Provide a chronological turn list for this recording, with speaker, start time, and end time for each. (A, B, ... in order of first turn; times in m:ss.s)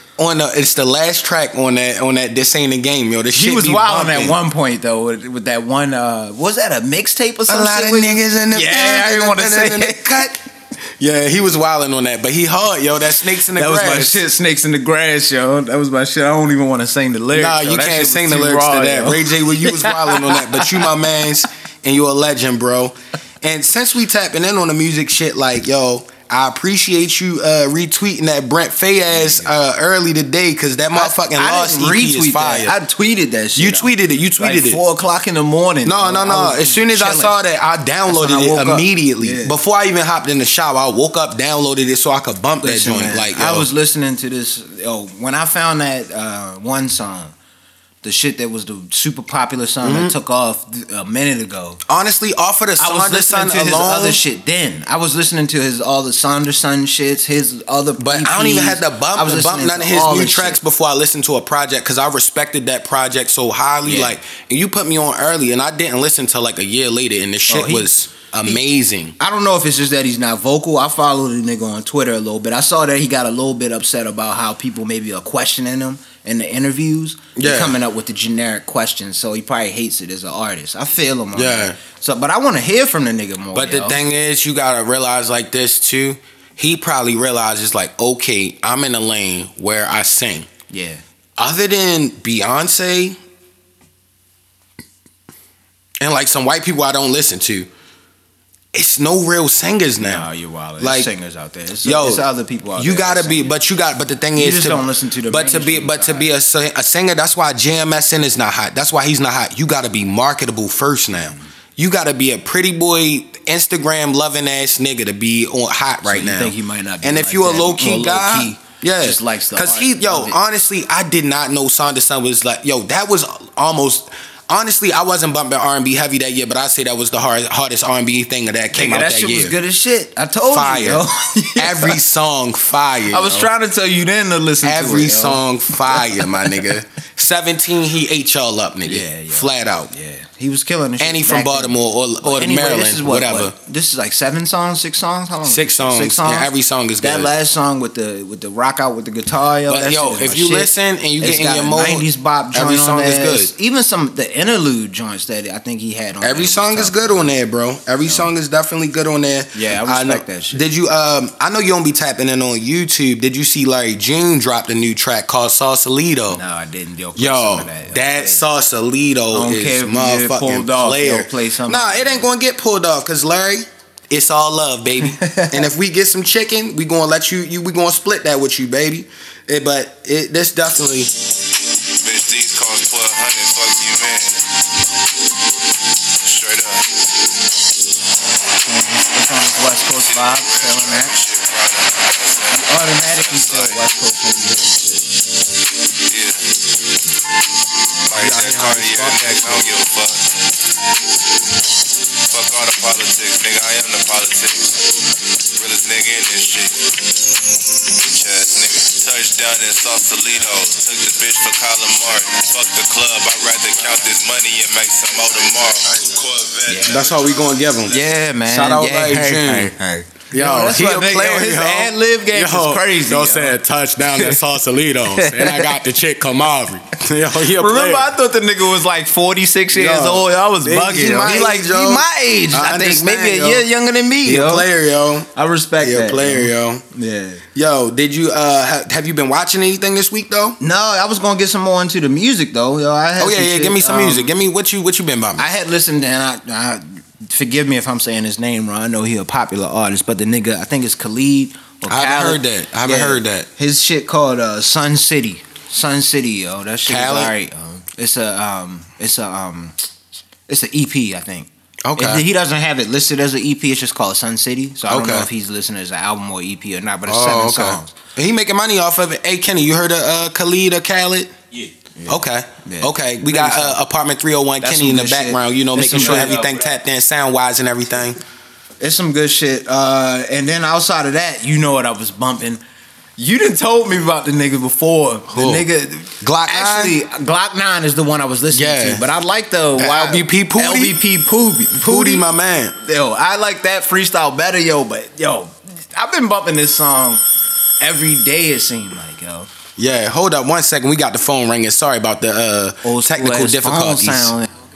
0:00.2-0:04.4 A
0:03.3-0:10.3 B
0:07.5-0:10.4 A
0:11.0-0:14.2 A
0:13.4-0:21.0 B
0:17.3-0:32.7 A
0:29.1-0:29.5 B
0:30.9-0:37.4 B
0:33.6-0:34.8 A
0:35.8-0:43.7 A
0:38.1-0:39.6 B
0:42.6-0:47.3 B
0:48.0-0:51.8 B
0:49.8-0:50.2 A
0:51.9-0:54.2 A
0:52.8-1:00.6 B
0:58.0-1:09.2 A
1:03.9-1:04.2 B
1:07.5-1:07.9 B
1:09.2-1:24.0 B
1:17.4-1:17.8 A
1:21.3-1:21.8 A
1:23.5-1:30.5 A
1:30.7-1:31.0 B
1:31.4-1:33.2 A
1:36.0-1:37.7 A
1:38.7-1:40.3 A
1:40.0-1:43.6 B
1:40.8-1:41.1 A
1:41.8-2:09.5 A
1:44.4-1:46.3 B
1:56.0-2:00.4 B
2:08.7-2:12.0 B
2:10.5-2:13.5 A
2:13.1-2:16.7 B
2:14.6-2:19.9 A
2:18.9-2:26.5 B
2:21.0-2:23.5 A
2:25.4-2:27.3 A
2:27.0-2:37.3 B
2:29.7-2:33.5 A
2:36.2-2:46.4 A
2:38.0-2:38.3 B
2:39.5-2:40.6 B
2:46.3-2:48.4 B
2:47.2-3:01.1 A
2:49.3-2:52.3 B
2:55.0-2:55.6 B
3:01.9-3:04.5 C
3:06.2-3:07.0 C
3:08.6-3:11.2 B
3:10.0-3:13.8 C
3:12.5-3:15.1 B
3:16.0-3:16.6 C
3:18.1-3:20.5 C
3:18.2-3:19.6 B
3:22.3-3:24.8 C
3:25.5-3:27.1 C
3:27.8-3:37.5 C
3:36.7-3:37.0 B
3:36.8-3:39.7 A
3:37.9-3:43.6 B
3:40.3-3:48.1 A
3:44.1-3:44.4 B
3:45.1-3:45.8 B
3:47.4-3:54.7 B
3:49.7-3:53.7 A
3:54.2-3:56.8 A
3:55.3-3:57.4 B
3:57.5-4:00.6 A
4:00.6-4:04.3 B
4:03.2-4:05.5 A
4:05.4-4:19.9 B
4:11.9-4:13.5 A
4:16.9-4:17.3 A
4:20.5-4:28.0 B
4:21.8-4:22.2 A
4:24.9-4:25.3 A
4:27.1-4:31.4 A
4:32.0-4:33.8 B
4:32.1-4:38.2 A
4:34.6-4:36.7 B
4:38.8-4:42.6 B
4:43.2-4:52.3 B
4:45.3-4:45.7 A
4:46.2-4:47.0 A
4:48.5-4:49.1 A
4:49.8-4:51.0 A
4:51.8-4:52.8 A
4:52.8-4:57.2 B
4:57.8-4:59.5 B
4:59.8-5:04.3 A
5:02.8-5:04.5 B